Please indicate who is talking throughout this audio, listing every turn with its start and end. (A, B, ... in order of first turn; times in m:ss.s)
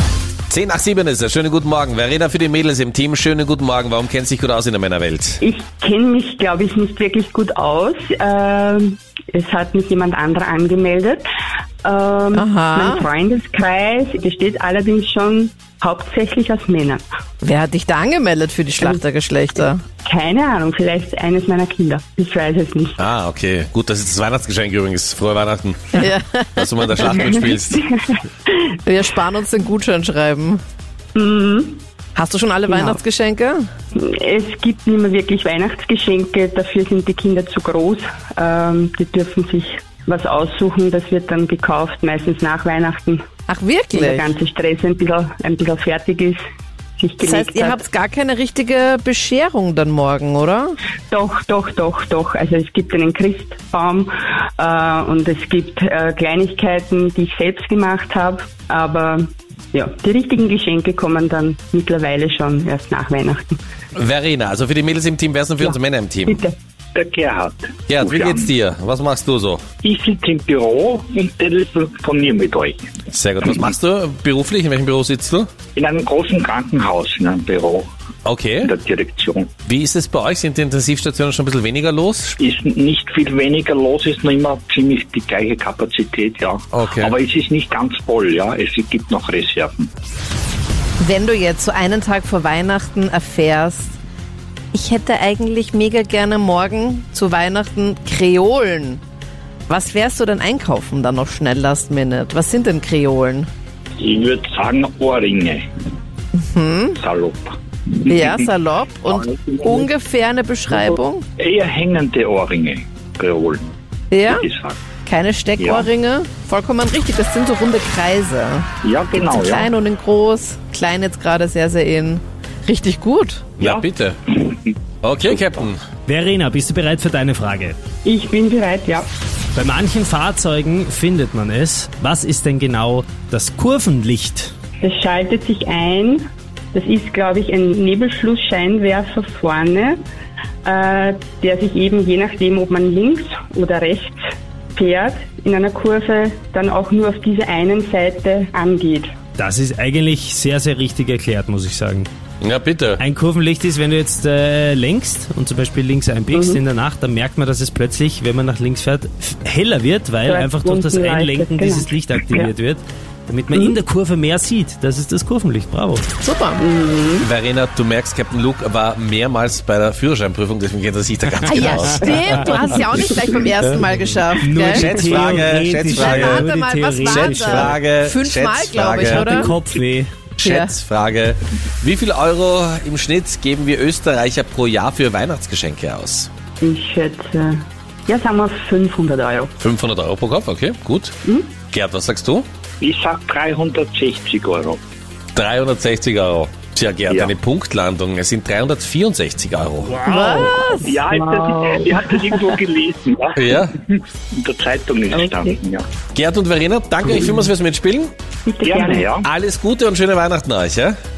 0:00.5-0:05.4 A
0:05.4-0:11.2 B
0:11.8-0:17.0 B
0:12.3-0:13.0 C
0:17.4-0:19.8 C
0:20.0-0:23.0 B
0:23.0-0:27.8 A
0:25.9-0:27.0 C
0:27.2-0:27.8 B
0:28.8-0:30.6 C
0:31.2-0:31.8 B
0:32.2-0:33.6 C
0:32.7-0:33.0 B
0:33.9-0:43.2 B
0:43.5-0:44.3 C
0:43.9-0:46.4 B
0:47.0-0:47.8 B
0:47.2-0:50.8 C
0:51.1-1:03.6 B
1:04.0-1:06.4 A
1:06.3-1:06.5 B
1:07.0-1:08.5 D
1:07.9-1:09.6 A
1:09.8-1:13.0 D
1:13.1-1:15.5 A
1:15.8-1:17.9 D
1:18.3-1:18.7 A
1:18.6-1:19.5 D
1:19.7-1:22.4 A
1:22.4-1:29.9 D
1:26.7-1:27.1 A
1:31.0-1:33.9 C
1:34.7-1:39.0 C
1:39.7-1:43.5 C
1:44.0-1:45.7 D
1:46.4-1:47.0 C
1:47.0-1:48.4 D
1:48.0-1:51.2 C
1:49.1-1:49.9 D
1:51.4-1:53.7 D
1:54.1-1:54.5 C
1:54.3-1:54.8 D
1:55.0-2:03.5 C
1:55.6-1:55.9 D
1:58.8-1:59.7 D
2:03.6-2:04.7 D
2:03.6-2:04.2 A
2:05.0-2:05.8 A
2:05.3-2:05.6 D
2:06.1-2:07.8 E
2:08.0-2:09.1 B
2:09.6-2:14.5 E
2:14.8-2:20.0 B
2:20.6-2:29.1 B
2:29.4-2:32.1 E
2:32.4-2:33.0 A
2:33.0-2:46.1 E
2:36.3-2:36.6 B
2:40.3-2:42.5 B
2:43.5-2:43.8 B
2:46.2-2:46.6 C
2:46.6-2:47.3 B
2:47.2-2:52.8 A
2:51.4-2:55.0 C
2:54.4-2:57.8 E
2:54.7-2:56.5 A
2:55.9-2:59.5 C
2:57.1-2:59.5 A
2:59.0-3:00.1 E
3:00.4-3:06.3 A
3:00.4-3:00.7 C
3:06.6-3:09.5 B
3:09.6-3:11.1 A
3:11.2-3:11.5 B
3:11.7-3:12.5 A
3:12.8-3:14.8 D
3:15.4-3:19.9 A
3:20.0-3:21.0 C
3:20.2-3:20.5 E
3:20.2-3:25.8 D
3:21.1-3:22.6 B
3:23.4-3:23.7 A
3:25.1-3:25.6 B
3:26.1-3:28.1 A
3:28.5-3:29.1 B
3:28.6-3:29.3 D
3:29.2-3:31.0 A